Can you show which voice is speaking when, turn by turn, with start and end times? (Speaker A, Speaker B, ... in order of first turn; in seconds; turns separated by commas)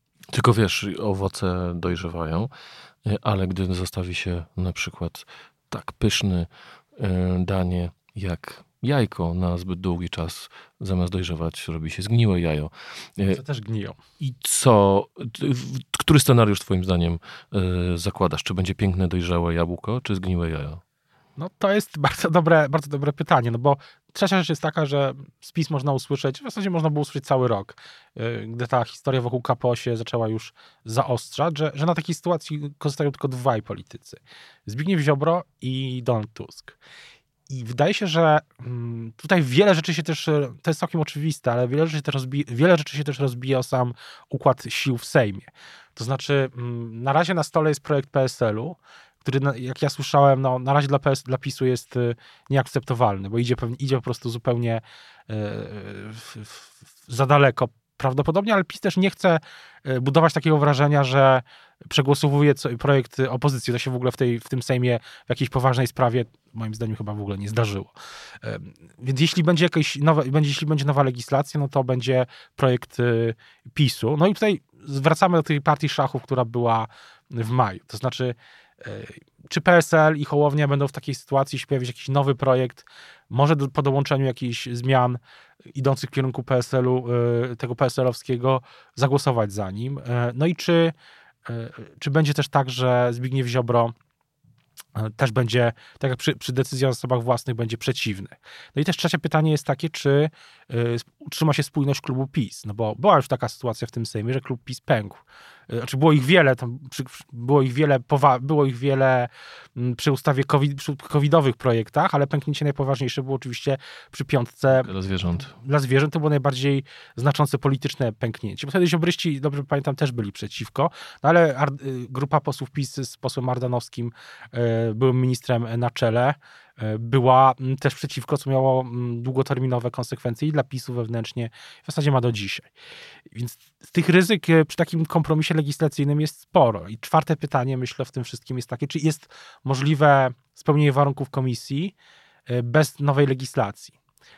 Speaker A: 0.3-2.5, Speaker A: 3.0-13.4, Speaker B: 13.3-14.0, Speaker A: 14.2-20.8, Speaker B: 21.4-36.8, Speaker B: 37.5-85.2, Speaker B: 85.8-90.9, Speaker B: 91.5-93.9, Speaker B: 95.0-114.9, Speaker A: 114.7-115.5, Speaker B: 115.5-132.7, Speaker B: 133.3-141.9, Speaker B: 142.5-143.9